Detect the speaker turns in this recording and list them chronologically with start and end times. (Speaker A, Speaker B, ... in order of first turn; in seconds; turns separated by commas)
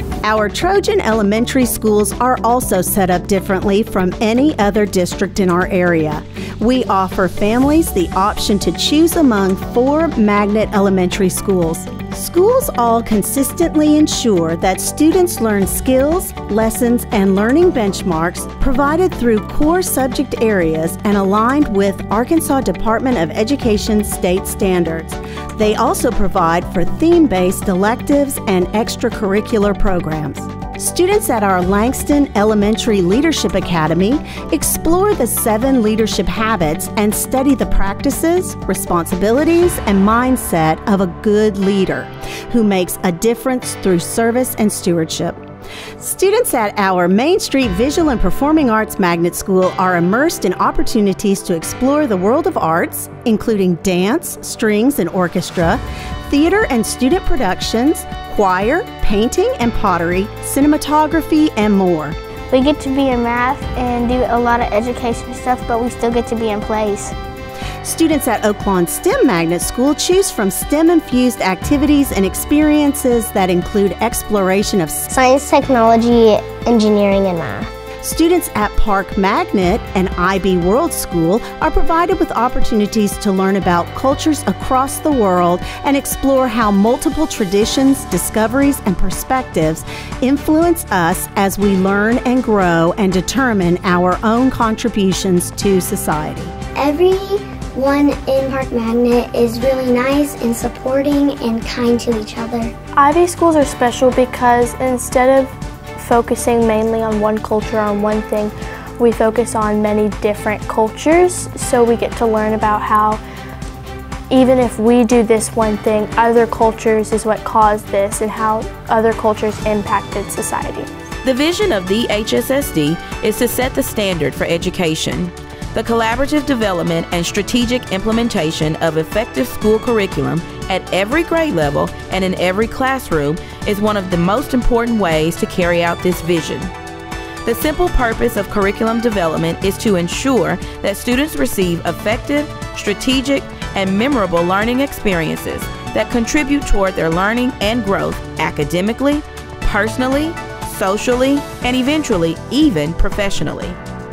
Speaker A: 0.2-45.4, Speaker A: 46.0-62.2, Speaker B: 62.5-67.1, Speaker A: 67.8-75.1, Speaker B: 75.2-77.7, Speaker A: 78.0-96.5, Speaker C: 96.8-102.7, Speaker D: 103.0-105.5, Speaker D: 106.0-113.2, Speaker D: 114.3-120.9, Speaker E: 121.2-136.7, Speaker E: 137.4-153.8